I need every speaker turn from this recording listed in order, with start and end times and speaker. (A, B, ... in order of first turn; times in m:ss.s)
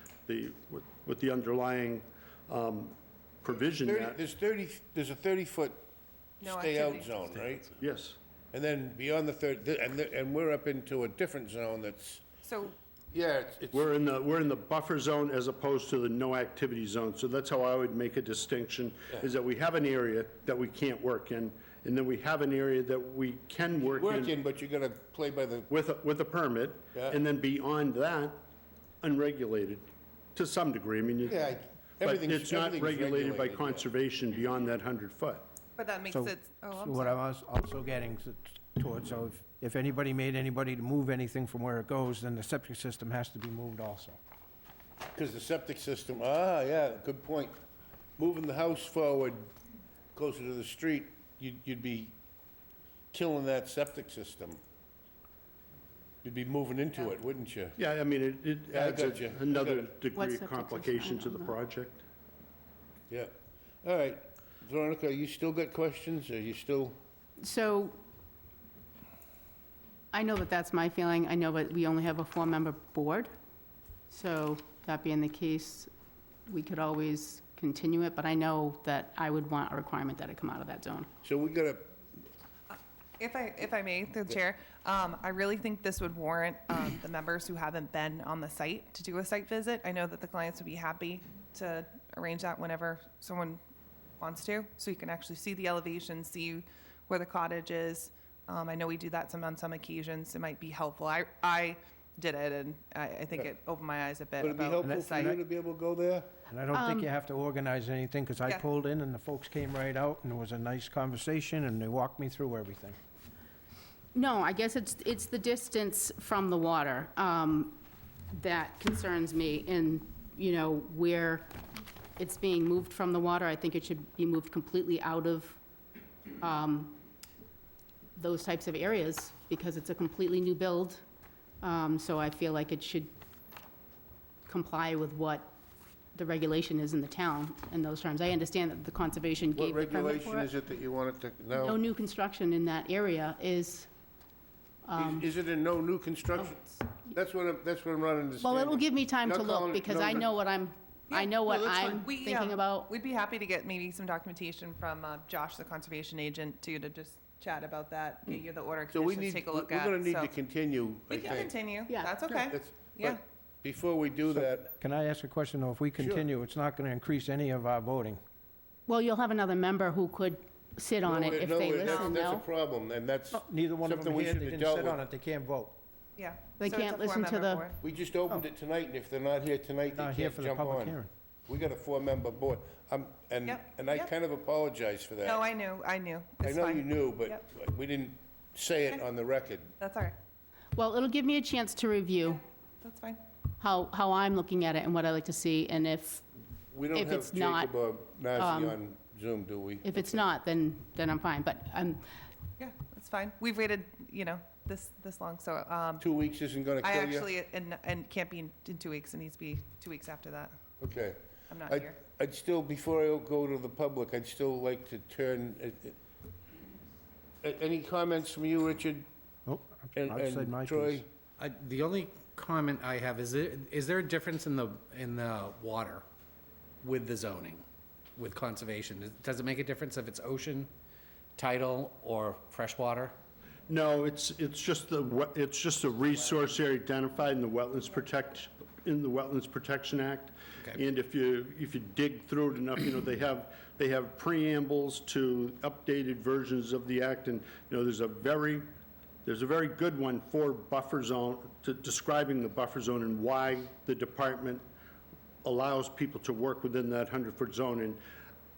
0:00.3-0:04.2 A
0:03.8-0:05.8 B
0:06.4-0:07.1 C
0:06.4-0:07.8 B
0:07.8-0:08.2 A
0:08.5-0:12.2 B
0:12.4-0:12.7 C
0:13.1-0:13.9 B
0:13.7-0:24.3 A
0:24.0-0:25.7 B
0:25.7-0:28.4 A
0:29.0-0:31.4 A
0:31.2-0:33.8 B
0:32.0-0:35.4 A
0:35.8-0:37.1 C
0:36.1-0:44.2 D
0:45.1-0:47.6 B
0:48.2-0:49.5 B
0:50.1-0:52.1 B
0:53.1-0:54.6 B
0:56.2-0:57.8 B
0:57.8-1:02.0 A
0:58.7-0:59.9 B
1:00.1-1:01.6 E
1:03.1-1:07.0 B
1:07.4-1:08.0 E
1:10.1-1:13.3 E
1:14.1-1:15.9 E
1:16.5-1:21.1 E
1:21.2-1:21.9 B
1:23.2-1:33.6 C
1:34.2-1:45.3 C
1:44.4-1:46.3 B
1:44.8-1:45.4 D
1:46.5-1:53.0 D
1:46.7-1:47.1 E
1:54.1-1:57.8 E
1:58.3-2:01.5 E
2:02.2-2:05.6 E
2:06.4-2:07.0 E
2:08.2-2:11.0 E
2:11.6-2:13.1 E
2:14.5-2:15.5 E
2:16.1-2:20.5 E
2:19.5-2:21.8 B
2:21.5-2:23.9 E
2:24.8-2:25.2 E
2:25.0-2:30.3 B
2:28.4-2:32.9 E
2:31.1-2:40.3 C
2:31.4-2:32.0 B
2:38.9-2:41.6 B
2:41.1-2:43.2 C
2:41.2-2:42.2 E
2:42.4-2:44.7 B
2:44.3-2:48.2 D
2:46.0-2:46.3 B
2:48.9-2:52.4 E
2:51.0-2:55.0 B
2:51.8-2:52.1 C
2:53.3-2:55.8 D
2:56.2-2:57.8 C
2:56.6-2:57.6 E
2:57.8-3:05.4 B
2:59.9-3:01.1 D
3:03.4-3:04.1 C
3:05.2-3:07.4 C
3:06.4-3:09.7 B
3:09.8-3:10.2 C
3:10.8-3:12.4 E
3:12.2-3:13.2 C
3:13.6-3:16.2 E
3:16.7-3:20.2 B
3:16.9-3:17.7 E
3:18.3-3:18.8 E
3:19.8-3:22.1 E
3:22.6-3:26.0 C
3:26.0-3:27.3 B
3:26.8-3:30.6 C
3:30.8-3:36.0 B
3:31.5-3:32.0 C
3:37.4-3:39.0 B
3:39.4-3:41.0 D
3:39.9-3:41.1 B
3:41.4-3:46.0 F
3:46.8-3:47.6 F
3:48.2-3:50.7 F
3:51.4-3:53.1 F
3:53.7-4:08.7 A
4:09.2-4:14.6 A
4:15.4-4:18.0 A